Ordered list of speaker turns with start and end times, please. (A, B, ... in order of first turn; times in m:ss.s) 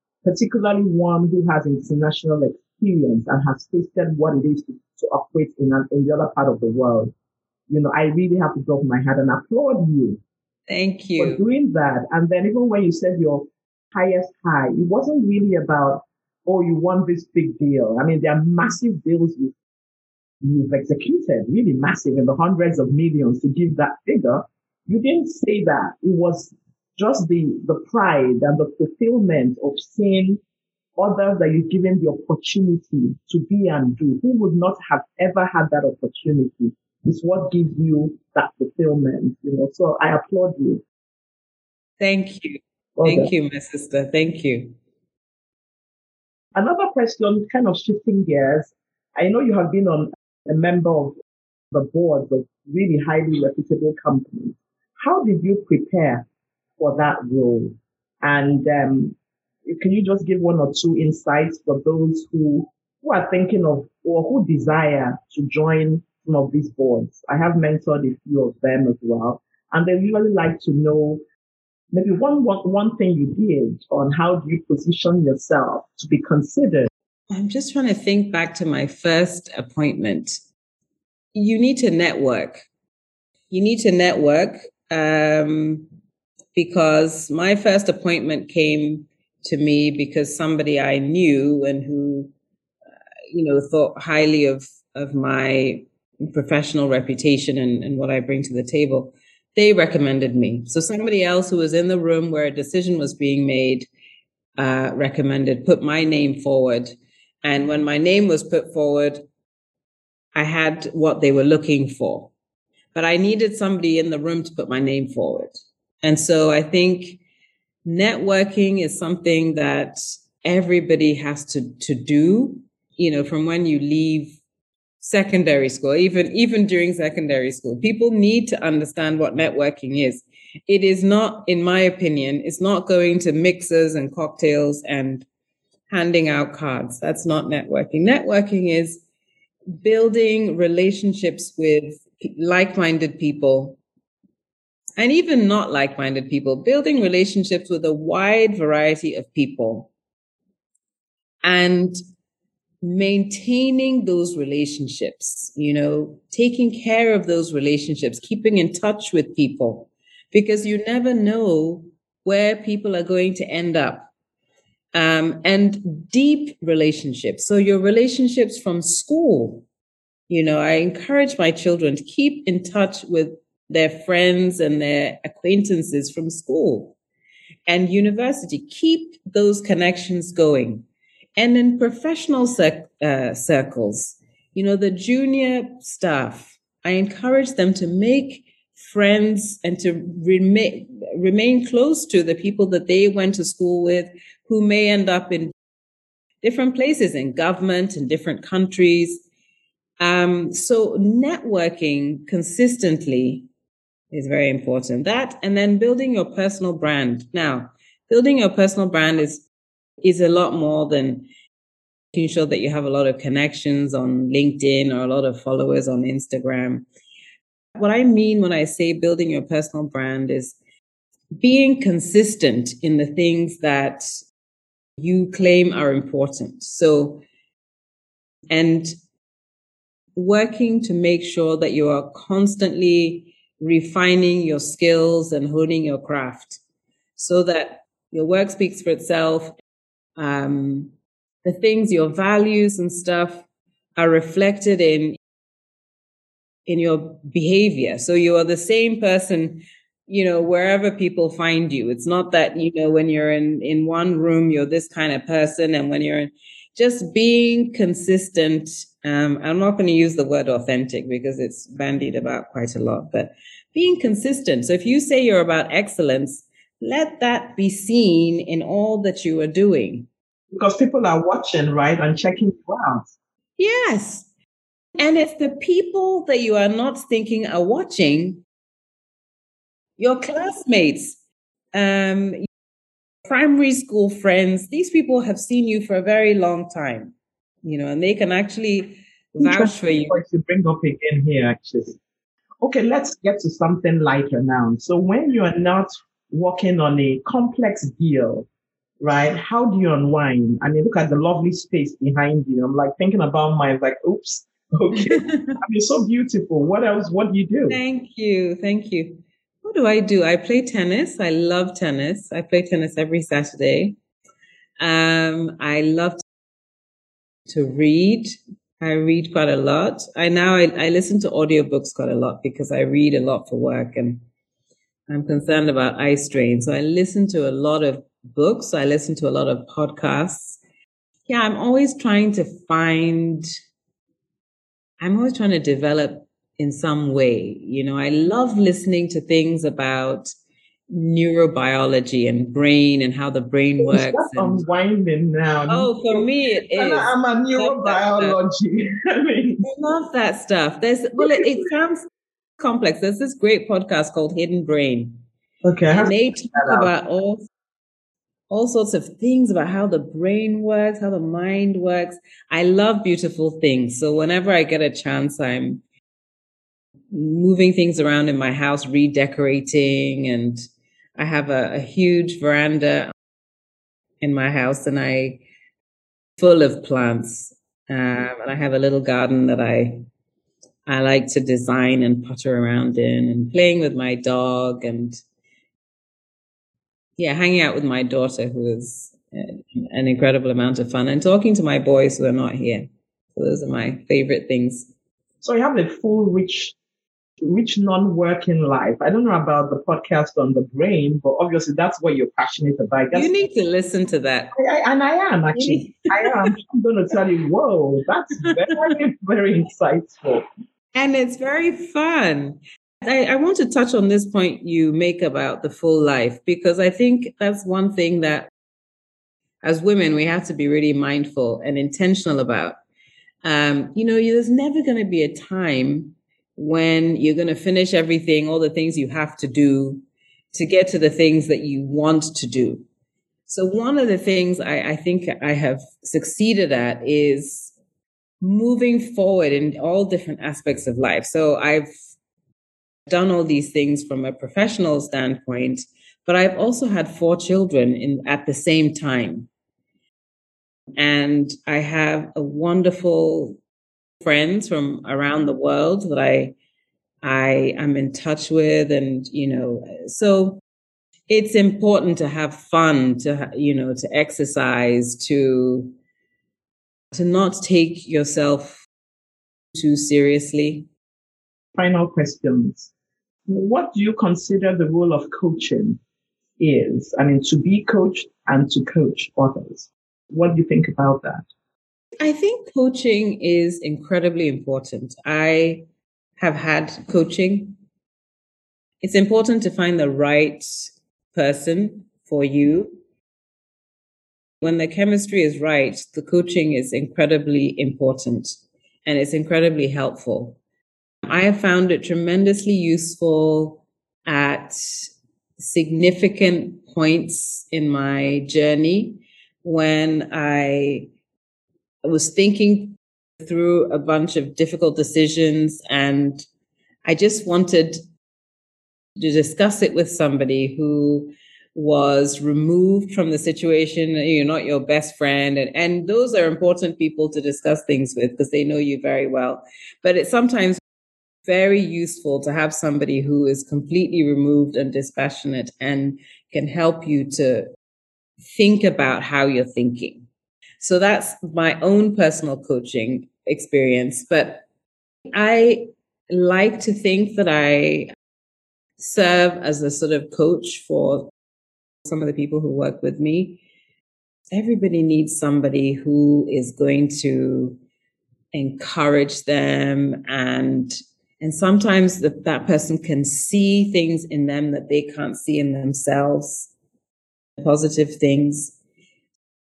0:00.2-0:07.1 A
0:07.7-0:10.2 A
0:10.7-0:11.4 B
0:11.2-0:19.6 A
0:20.4-0:30.4 A
0:31.0-0:40.8 A
0:42.0-0:44.8 B
0:43.0-0:43.3 A
0:46.6-0:51.2 A
0:51.7-0:56.3 A
0:56.8-1:11.2 A
1:11.9-1:16.9 A
1:17.3-1:20.4 B
1:21.4-1:22.7 B
1:23.5-1:25.9 B
1:26.6-1:32.3 B
1:33.3-1:43.9 B
1:44.6-1:49.2 B
1:50.4-1:52.3 B
1:53.0-1:57.2 B
1:57.8-2:04.4 B
2:05.0-2:15.3 B
2:15.9-2:19.0 B
2:19.8-2:23.8 B
2:25.0-2:29.9 B
2:31.4-2:32.0 B
2:32.8-2:44.1 B
2:44.9-2:49.7 B
2:50.3-2:57.0 B
2:57.7-3:15.6 B
3:16.4-3:19.2 B
3:20.0-3:23.5 B
3:24.1-3:29.5 B
3:30.0-3:31.3 B
3:32.1-3:36.9 B
3:37.8-3:40.6 B
3:41.4-3:44.2 B
3:45.0-3:47.2 B
3:48.5-3:48.9 B
3:50.2-3:56.6 B
3:57.2-3:59.6 B
4:00.2-4:00.9 B
4:01.4-4:03.4 B
4:04.0-4:05.2 B
4:06.7-4:30.1 B
4:30.5-4:33.1 A
4:33.6-4:34.3 B
4:35.0-4:38.4 B
4:40.0-4:41.2 B
4:41.7-4:42.4 B
4:43.2-4:50.2 B
4:49.4-4:52.0 A
4:52.6-4:58.5 A
4:59.0-5:07.8 A
5:04.9-5:05.6 B
5:07.7-5:14.0 B
5:14.8-5:16.2 B
5:17.5-5:24.2 B
5:25.1-5:30.6 B
5:31.3-5:33.5 B
5:35.0-5:40.3 B
5:40.9-5:44.6 B
5:43.8-5:49.6 A
5:45.7-5:48.4 B
5:49.6-5:52.1 B
5:51.2-5:51.6 A
5:52.6-5:55.2 B
5:55.6-5:56.9 A
5:55.9-5:57.5 B
5:58.5-6:05.8 B
6:07.1-6:10.6 B
6:11.2-6:13.1 B
6:14.2-6:15.4 B
6:16.4-6:20.0 B
6:20.9-6:25.2 B
6:27.2-6:34.9 B
6:35.4-6:36.8 A
6:37.4-6:43.3 A
6:43.1-6:44.5 B
6:44.5-6:50.4 A
6:45.5-6:46.5 B
6:48.5-6:48.9 B
6:51.0-6:58.5 B
6:59.6-7:02.8 B
7:03.4-7:12.9 B
7:13.5-7:17.7 B
7:18.4-7:21.9 B
7:23.1-7:29.5 B
7:31.0-7:33.6 B
7:34.2-7:36.6 B
7:37.2-7:40.6 B
7:41.3-7:46.0 B
7:47.1-7:48.8 B
7:49.8-7:50.9 B
7:51.8-7:52.9 A
7:53.5-7:56.0 A
7:56.6-8:01.5 A
8:02.2-8:05.8 B
8:06.4-8:07.8 B
8:09.0-8:13.0 B
8:14.6-8:20.6 B
8:21.3-8:31.1 B
8:32.0-8:36.4 B
8:37.0-8:38.0 B
8:39.2-8:50.8 B
8:51.5-8:57.7 B
8:58.4-9:00.3 B
9:00.8-9:04.6 B
9:05.3-9:08.1 B
9:09.0-9:11.3 B
9:12.1-9:13.6 B
9:14.5-9:17.8 B
9:18.5-9:26.7 B
9:27.6-9:28.8 B